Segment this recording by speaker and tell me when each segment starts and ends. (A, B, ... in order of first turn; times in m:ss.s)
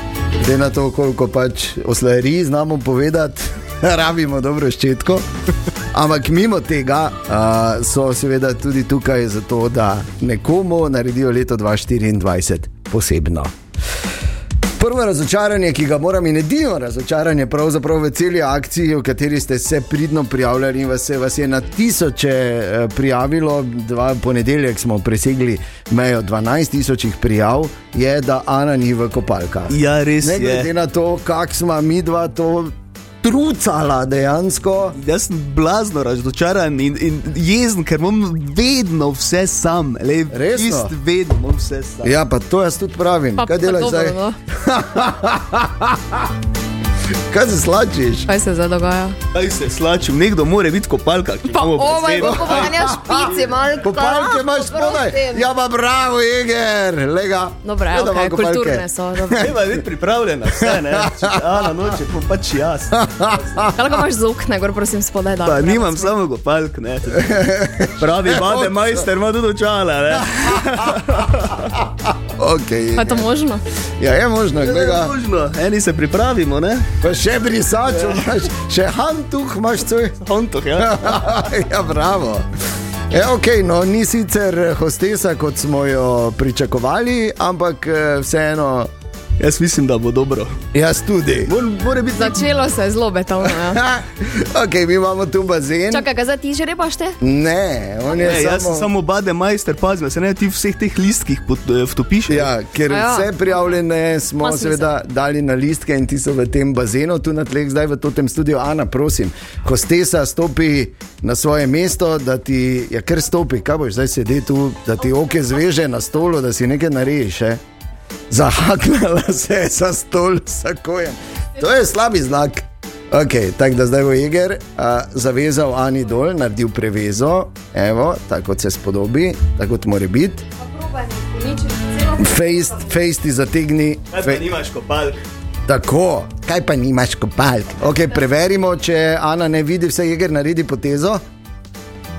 0:00.4-0:05.3 A
0:05.9-0:13.6 A
0:14.8-0:35.0 A
0:29.7-0:30.7 B
0:35.0-0:42.2 B
0:40.3-0:40.9 A
0:42.0-0:46.3 A
0:43.4-0:44.4 C
0:47.3-0:48.3 A
0:48.3-0:49.2 C
0:49.3-0:53.2 B
0:51.5-0:55.5 C
0:52.2-0:59.6 A
0:57.6-0:59.5 C
0:59.4-1:03.3 B
1:01.0-1:01.4 A
1:03.0-1:03.7 A
1:03.7-1:06.1 C
1:05.4-1:11.6 B
1:07.2-1:08.9 A
1:12.3-1:13.3 A
1:13.0-1:13.6 C
1:14.0-1:15.1 A
1:14.6-1:16.9 B
1:17.0-1:20.2 A
1:20.2-1:21.3 B
1:20.8-1:22.5 A
1:23.1-1:28.9 A
1:29.4-1:30.6 B
1:30.7-1:31.5 A
1:31.5-1:32.4 B
1:32.1-1:33.8 C
1:33.4-1:36.1 A
1:35.9-1:37.2 C
1:37.2-1:38.9 A
1:38.1-1:42.5 B
1:42.3-1:57.6 A
1:42.9-1:43.5 C
1:44.4-1:44.9 C
1:58.3-2:10.5 A
2:10.6-2:12.8 C
2:12.2-2:14.5 A
2:14.1-2:15.2 B
2:15.7-2:21.2 A